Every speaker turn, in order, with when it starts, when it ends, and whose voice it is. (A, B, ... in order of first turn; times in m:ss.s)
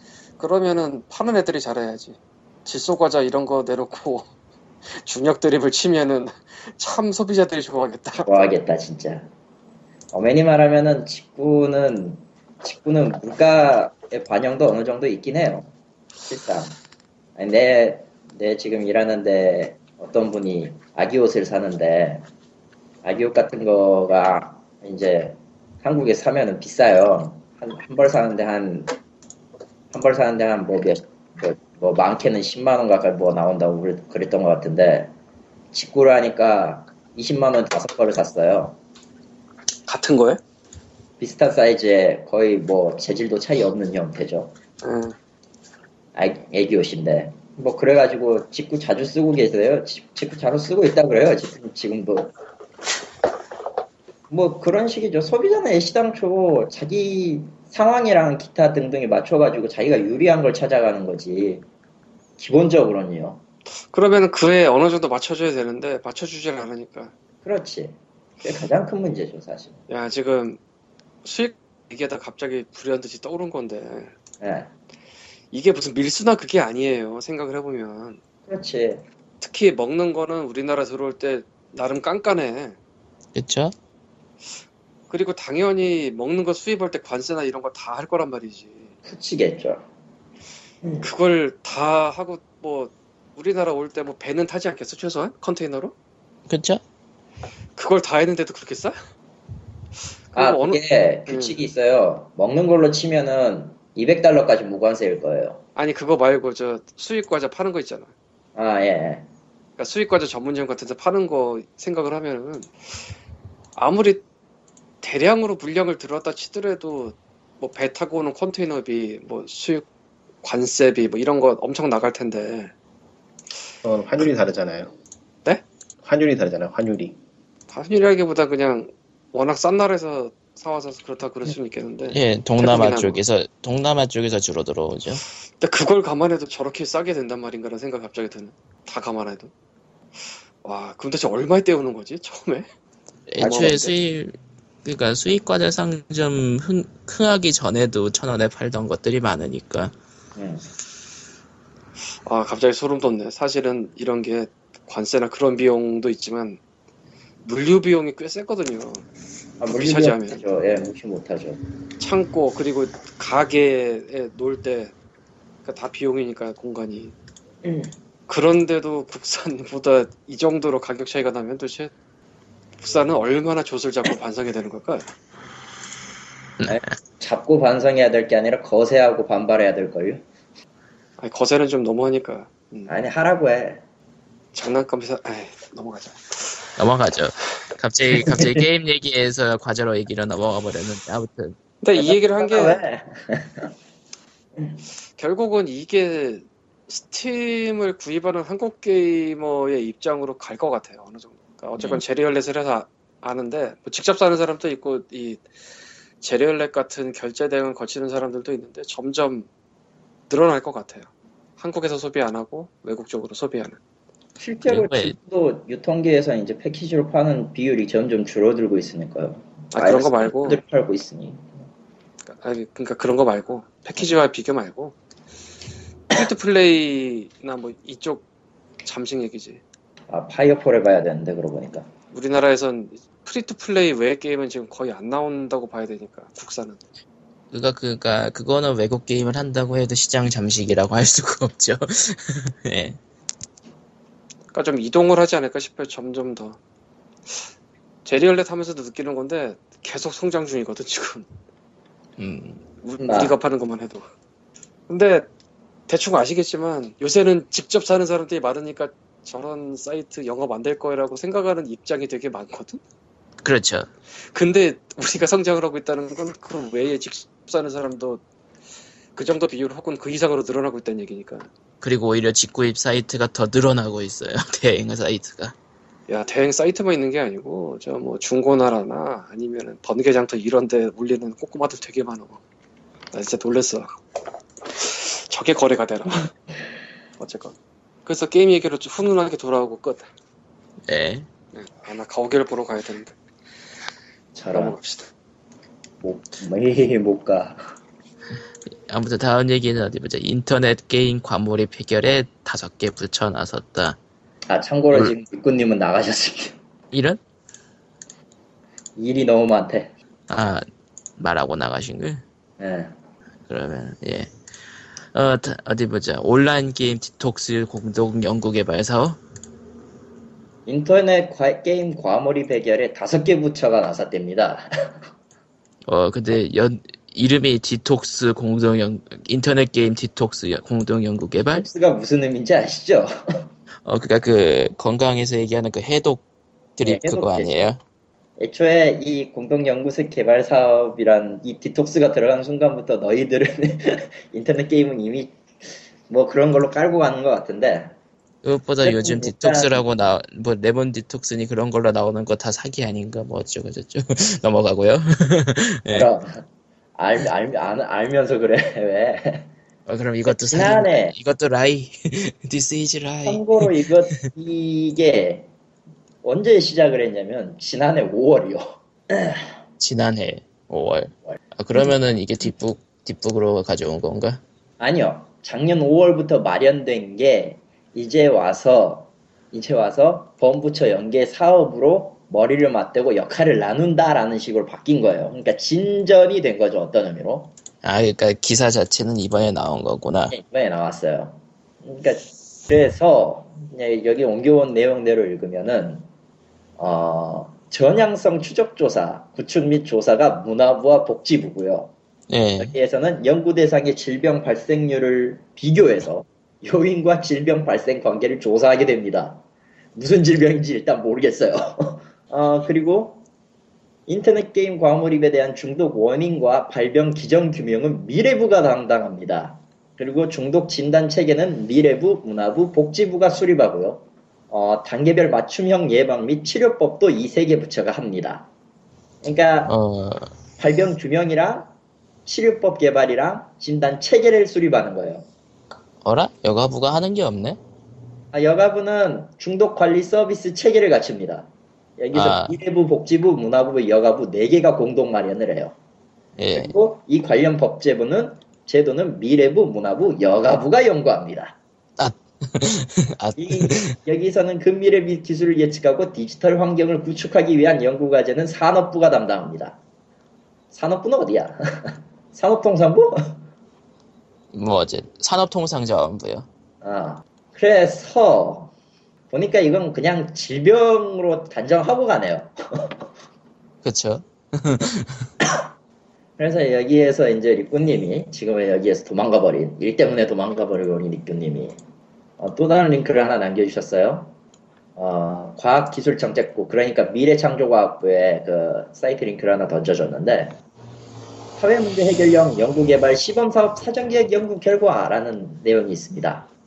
0:00.4-0:04.3 A
0:05.0-0:08.3 A
0:08.3-0:09.3 B
0:10.1-0:15.7 B
0:16.2-0:16.8 B
0:17.4-0:22.3 B
0:23.0-0:28.9 B
0:29.9-0:35.1 B
0:35.7-0:38.8 B
0:39.9-0:40.4 A
0:41.2-0:44.6 B
0:44.8-0:45.2 A
0:46.2-0:52.3 B
0:54.3-1:01.6 B
1:02.4-1:03.4 B
1:03.9-1:07.1 A
1:07.4-1:09.8 B
1:09.9-1:10.6 A
1:11.2-1:14.1 A
1:14.4-1:14.7 B
1:15.5-1:18.2 A
1:18.5-1:19.0 B
1:19.4-1:22.8 A
1:23.4-1:23.7 C
1:25.1-1:28.9 A
1:29.1-1:29.8 B
1:31.0-1:35.9 A
1:36.5-1:36.8 C
1:37.8-1:39.0 A
1:40.3-1:41.6 A
1:40.4-1:45.6 B
1:45.8-1:48.1 A
1:48.6-1:49.3 B
1:49.8-1:52.7 A
1:53.8-1:54.2 A
1:55.0-1:59.9 A
2:00.4-2:02.7 A
2:03.8-2:04.9 D
2:06.0-2:07.2 D
2:07.7-2:13.2 A
2:12.1-2:15.2 C
2:15.6-2:19.5 A
2:20.6-2:22.7 A
2:23.3-2:29.9 C
2:23.4-2:23.8 B
2:23.4-2:23.9 A
2:30.4-2:30.6 B
2:32.3-2:36.6 A
2:37.4-2:39.1 A
2:39.6-2:41.6 B
2:39.7-2:40.4 A
2:42.0-2:44.9 A
2:45.6-2:47.2 A
2:47.6-2:47.9 B
2:48.3-2:51.9 A
2:52.8-2:55.1 A
2:56.7-3:00.2 B
3:01.2-3:02.9 A
3:02.9-3:03.8 B
3:04.5-3:06.6 A
3:06.8-3:11.6 C
3:08.2-3:08.6 B
3:11.8-3:12.8 A
3:12.0-3:13.7 B
3:15.2-3:25.4 A
3:21.8-3:22.0 B
3:26.2-3:29.5 A
3:30.3-3:33.8 A
3:34.4-3:41.5 B
3:34.6-3:35.2 C
3:39.7-3:40.6 A
3:42.3-3:45.0 A
3:46.1-3:48.2 A
3:48.8-3:49.6 A
3:50.1-3:51.9 B
3:52.1-3:56.8 A
3:57.5-4:03.0 C
4:04.5-4:06.6 A
4:08.0-4:11.3 A
4:12.2-4:12.6 C
4:12.8-4:14.1 A
4:13.0-4:13.3 B
4:14.9-4:15.3 A
4:15.9-4:22.8 A
4:23.4-4:23.9 C
4:24.3-4:28.2 A
4:29.2-4:31.5 A
4:31.8-4:35.6 C
4:36.1-4:42.4 A
4:43.1-4:43.9 A
4:44.6-4:46.3 A
4:47.2-4:47.6 A
4:48.1-4:50.1 A
4:50.9-4:51.3 C
4:51.5-4:53.1 A
4:54.4-4:54.8 B
4:54.5-4:55.1 A
4:56.0-4:57.6 B
4:58.9-5:04.0 C
5:04.5-5:06.6 B
5:06.9-5:07.2 C
5:09.0-5:09.9 B
5:10.3-5:10.6 C
5:11.2-5:12.2 C
5:12.6-5:12.9 B
5:13.5-5:14.3 C
5:15.1-5:19.2 C
5:20.7-5:24.7 B
5:25.9-5:31.7 C
5:31.5-5:33.1 B
5:33.8-5:36.2 C
5:36.8-5:37.8 C
5:36.8-5:37.7 B
5:38.4-5:45.4 B
5:46.1-5:47.9 B
5:48.4-5:56.1 C
5:48.8-5:49.8 B
5:55.9-5:56.4 B
5:57.0-5:59.5 B
5:59.9-6:03.7 C
6:00.3-6:01.2 B
6:03.2-6:05.5 B
6:06.2-6:09.5 B
6:09.8-6:14.4 C
6:11.3-6:12.0 B
6:14.8-6:27.6 B
6:27.8-6:30.4 C
6:30.3-6:36.1 B
6:36.8-6:41.9 B
6:42.3-6:42.7 C
6:42.6-6:49.4 B
6:50.0-6:53.2 B
6:54.1-7:08.5 B
7:09.2-7:09.7 B
7:09.7-7:10.3 C
7:10.6-7:11.7 B
7:12.3-7:15.3 B
7:16.0-7:17.6 C
7:18.3-7:25.8 B
7:22.1-7:22.6 C
7:26.4-7:26.7 C
7:26.6-7:31.6 B
7:32.0-7:33.9 C
7:33.4-7:39.8 B
7:40.7-7:43.1 B
7:44.5-7:46.5 C
7:46.8-7:48.7 B
7:49.3-7:53.0 B
7:53.8-7:55.3 C
7:56.4-8:01.8 B
8:02.4-8:04.3 B
8:05.0-8:10.6 B
8:11.6-8:16.5 B